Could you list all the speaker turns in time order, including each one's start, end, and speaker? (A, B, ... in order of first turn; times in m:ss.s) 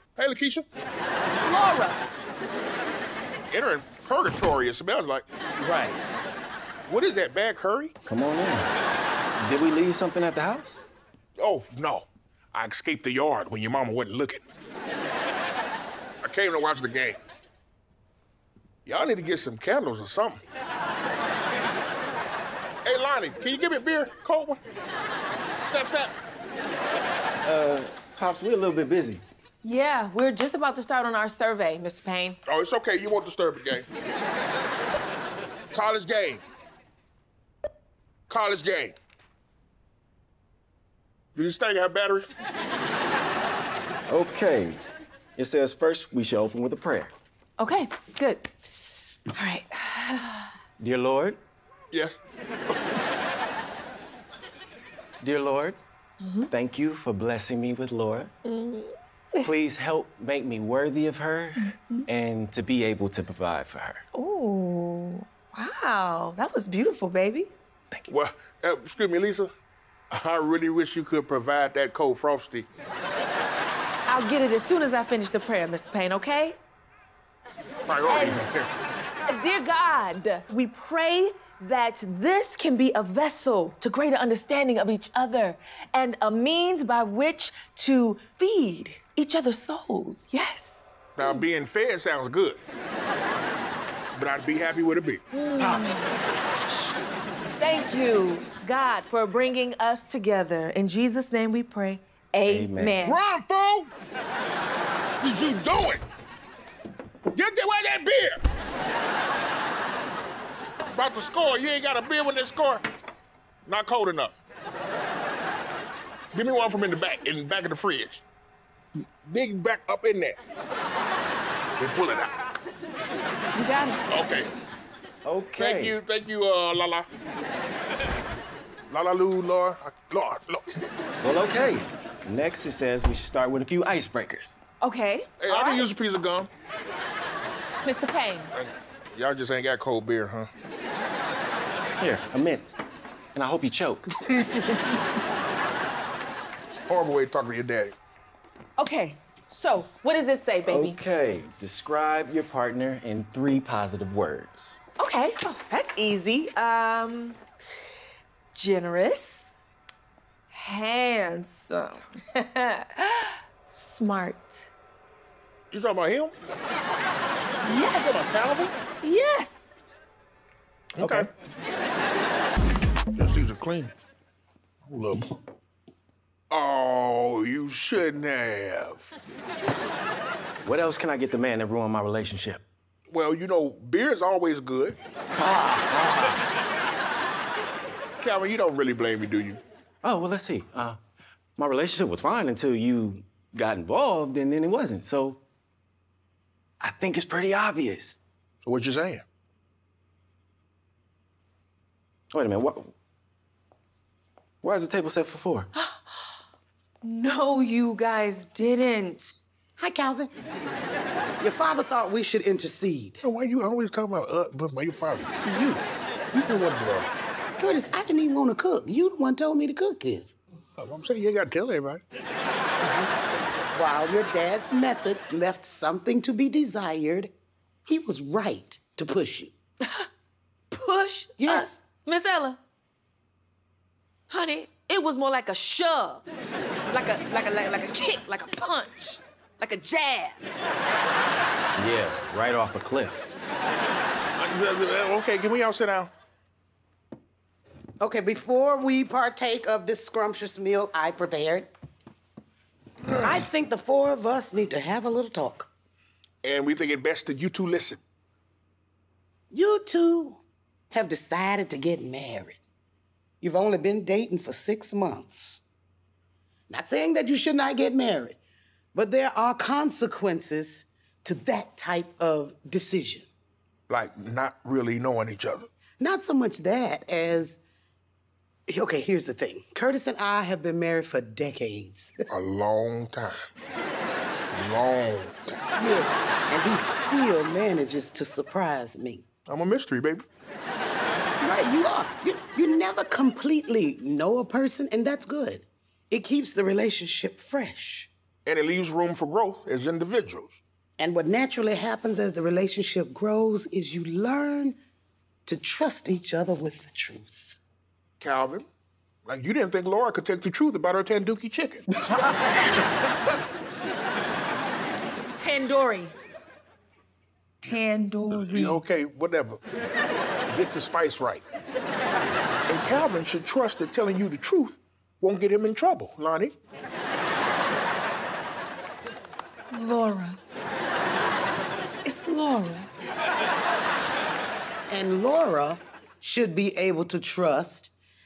0:00.2-0:00.7 A
0:01.4-0:02.0 B
0:03.5-0:05.2 A
0:05.6-0:06.0 C
0:06.9-0:08.0 A
0:08.1-0:08.7 C
0:09.4-0:10.8 C
0:11.4-0:14.4 A
0:16.2-0:17.2 A
0:18.9-0:20.4 A
0:22.8-0:24.6 A
0:25.6-0:26.1 A
0:27.4-0:29.2 C
0:29.6-0:32.4 B
0:32.5-0:33.9 A
0:35.7-0:36.4 A
0:38.3-0:39.0 A
0:41.4-0:42.3 A
0:44.1-0:44.8 C
0:45.4-0:47.1 C
0:47.6-0:48.5 B
0:49.3-0:50.5 B
0:50.8-0:51.4 C
0:51.9-0:52.2 A
0:55.2-0:55.8 C
0:56.2-0:56.5 B
0:56.5-0:58.3 C
0:58.4-0:59.5 B
0:59.4-1:04.0 C
1:01.6-1:02.0 B
1:04.1-1:07.5 B
1:08.1-1:09.5 A
1:10.1-1:12.7 A
1:14.1-1:16.6 B
1:17.9-1:18.8 A
1:18.1-1:18.5 B
1:19.3-1:31.4 B
1:31.2-1:32.6 A
1:34.2-1:36.0 A
1:35.3-1:36.0 B
1:37.6-1:43.2 B
1:42.5-1:43.0 C
1:43.0-1:43.9 A
1:45.2-1:46.0 A
1:47.3-1:48.4 A
1:50.9-1:52.8 A
1:53.7-1:54.4 A
1:56.3-1:58.2 A
1:59.2-2:00.4 A
2:01.8-2:02.3 A
2:03.6-2:04.0 B
2:04.1-2:04.5 A
2:05.2-2:06.0 C
2:05.6-2:07.1 A
2:08.9-2:10.6 A
2:11.2-2:14.6 C
2:14.8-2:15.9 B
2:15.4-2:16.5 A
2:17.8-2:18.5 B
2:18.5-2:20.5 A
2:22.0-2:22.8 C
2:23.3-2:24.1 C
2:24.3-2:24.8 A
2:26.7-2:28.0 A
2:28.8-2:31.0 B
2:30.6-2:34.8 C
2:35.0-2:37.4 B
2:38.5-2:39.5 B
2:40.5-2:44.7 B
2:45.7-2:46.3 A
2:47.6-2:48.2 B
2:47.9-2:48.7 A
2:49.0-2:49.8 B
2:51.0-2:51.3 A
2:51.0-2:51.3 C
2:53.2-2:53.9 A
2:54.9-2:55.3 A
2:56.5-2:59.1 A
3:00.6-3:02.6 C
3:03.1-3:05.0 A
3:05.4-3:06.4 C
3:08.2-3:09.6 A
3:10.0-3:11.0 C
3:11.6-3:15.4 C
3:16.8-3:18.2 C
3:18.6-3:19.2 A
3:22.3-3:22.9 C
3:24.6-3:25.7 C
3:25.8-3:26.0 B
3:27.0-3:29.4 B
3:29.8-3:30.3 D
3:31.4-3:33.2 D
3:33.2-3:37.1 A
3:37.6-3:40.4 D
3:40.8-3:42.0 A
3:42.8-3:43.1 D
3:43.7-3:47.3 D
3:47.9-3:49.5 D
3:50.7-3:52.6 B
3:51.4-3:51.8 D
3:54.3-3:56.2 B
3:56.9-4:00.5 B
4:01.8-4:03.3 C
4:04.4-4:06.1 A
4:08.0-4:11.7 D
4:13.1-4:13.4 A
4:13.2-4:15.7 D
4:16.4-4:18.0 A
4:19.5-4:20.4 D
4:20.9-4:22.6 D
4:23.4-4:25.6 D
4:26.7-4:28.4 D
4:29.0-4:33.3 D
4:33.9-4:35.7 A
4:36.0-4:37.6 D
4:38.7-4:42.3 D
4:42.3-4:43.4 A
4:44.5-4:45.6 A
4:45.7-4:49.2 D
4:49.5-4:50.2 A
4:51.4-4:58.1 D
4:58.5-5:00.6 A
5:01.0-5:04.8 D
5:05.5-5:07.6 D
5:08.2-5:08.7 A
5:09.3-5:11.9 A
5:15.4-5:16.2 B
5:17.6-5:18.8 B
5:18.3-5:19.6 A
5:20.5-5:21.4 A
5:22.7-5:26.5 A
5:29.7-5:30.4 B
5:32.0-5:32.9 B
5:34.9-5:37.9 D